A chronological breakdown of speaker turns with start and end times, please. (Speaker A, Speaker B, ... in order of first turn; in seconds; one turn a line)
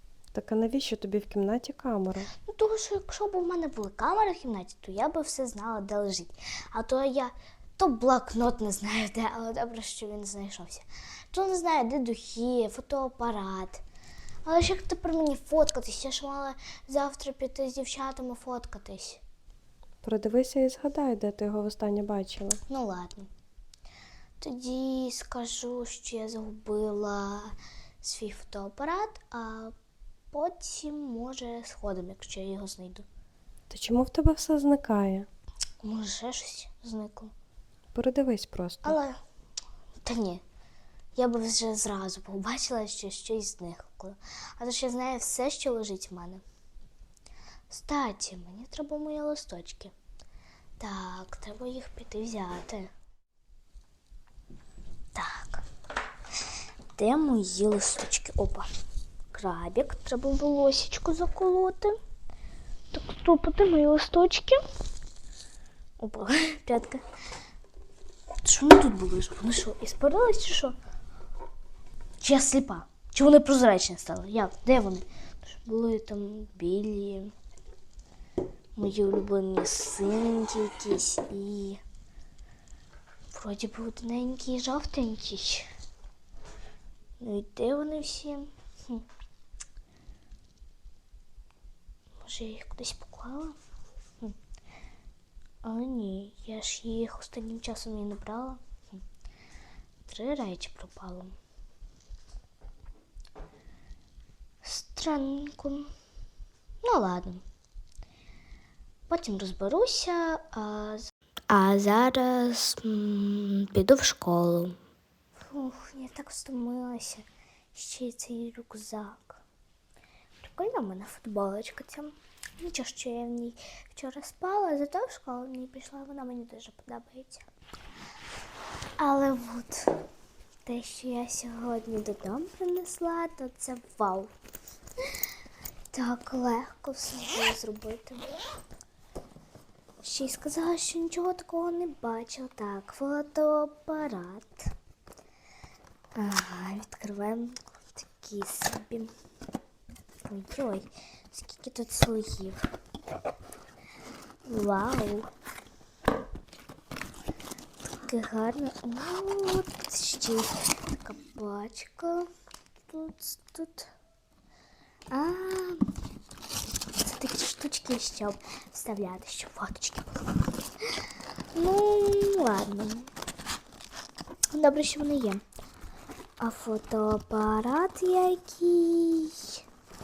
Speaker A: 0.3-2.3
Speaker B: 2.5-13.8
Speaker B: 14.4-19.2
Speaker A: 20.0-22.6
Speaker B: 22.7-23.3
Speaker B: 24.4-29.7
Speaker B: 30.3-33.1
Speaker A: 33.7-35.3
Speaker B: 35.8-37.3
Speaker A: 37.9-39.0
Speaker B: 38.8-39.2
Speaker B: 40.0-40.4
Speaker B: 41.1-46.4
Speaker B: 47.7-49.9
Speaker B: 50.8-52.9
Speaker B: 55.1-55.6
Speaker B: 57.0-58.7
Speaker B: 59.3-62.0
Speaker B: 62.9-64.6
Speaker B: 66.0-67.0
Speaker B: 68.4-70.8
Speaker B: 72.2-77.3
Speaker B: 78.8-81.8
Speaker B: 83.3-85.7
Speaker B: 87.2-89.0
Speaker B: 92.2-93.6
Speaker B: 95.6-99.0
Speaker B: 100.1-101.4
Speaker B: 104.6-105.9
Speaker B: 106.8-107.4
Speaker B: 109.1-111.7
Speaker C: 111.5-114.7
Speaker B: 115.4-119.4
Speaker B: 120.4-127.5
Speaker B: 129.0-130.0
Speaker B: 130.7-134.3
Speaker B: 135.9-138.4
Speaker B: 140.0-144.7
Speaker B: 146.2-149.1
Speaker B: 150.2-152.7
Speaker B: 154.5-155.3
Speaker B: 158.0-162.3
Speaker B: 162.9-163.9
Speaker B: 165.1-165.9
Speaker B: 167.0-170.9
Speaker B: 171.6-173.1
Speaker B: 174.5-175.4
Speaker B: 176.4-179.6